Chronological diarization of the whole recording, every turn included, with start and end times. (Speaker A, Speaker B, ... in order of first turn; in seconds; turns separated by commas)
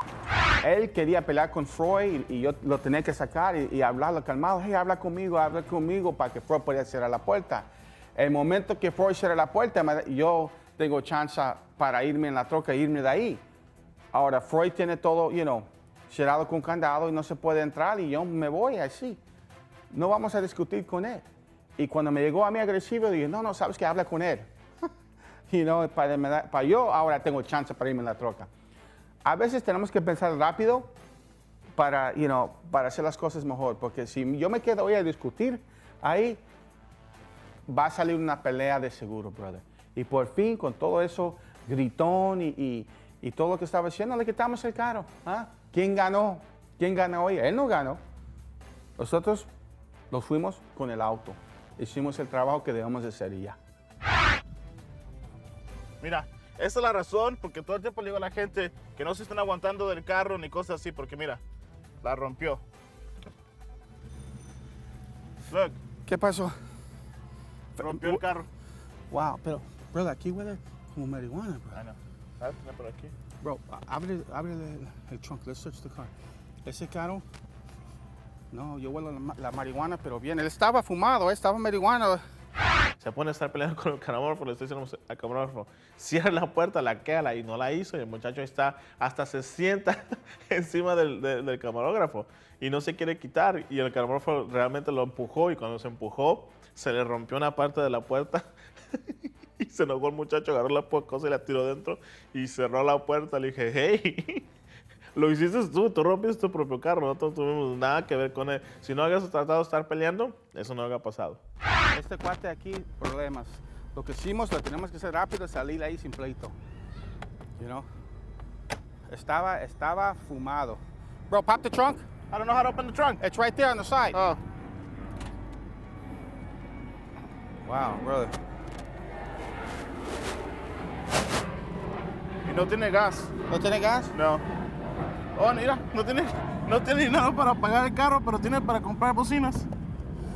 Speaker A: 0.6-13.4, Speaker A: 14.1-19.2, Speaker A: 19.9-21.3, Speaker A: 21.8-24.5, Speaker A: 25.5-28.5, Speaker A: 29.2-30.9, Speaker A: 31.8-36.4, Speaker A: 37.7-48.0, Speaker A: 49.0-49.5, Speaker A: 50.1-53.6, Speaker B: 56.0-61.4, Speaker B: 62.0-62.6, Speaker B: 65.5-65.8, Speaker A: 66.1-66.6, Speaker A: 67.8-68.2, Speaker B: 67.8-68.5, Speaker A: 69.1-71.8, Speaker B: 71.7-73.1, Speaker A: 73.4-76.1, Speaker A: 76.7-77.2, Speaker A: 78.5-82.2, Speaker B: 83.0-104.5, Speaker B: 105.2-111.4, Speaker A: 111.9-116.6, Speaker A: 117.6-117.9, Speaker A: 119.1-122.1, Speaker B: 122.3-123.2, Speaker A: 123.2-124.2, Speaker B: 124.1-124.4, Speaker A: 127.6-128.3, Speaker B: 132.4-133.3, Speaker A: 133.5-134.1, Speaker B: 134.1-134.4, Speaker B: 135.3-139.7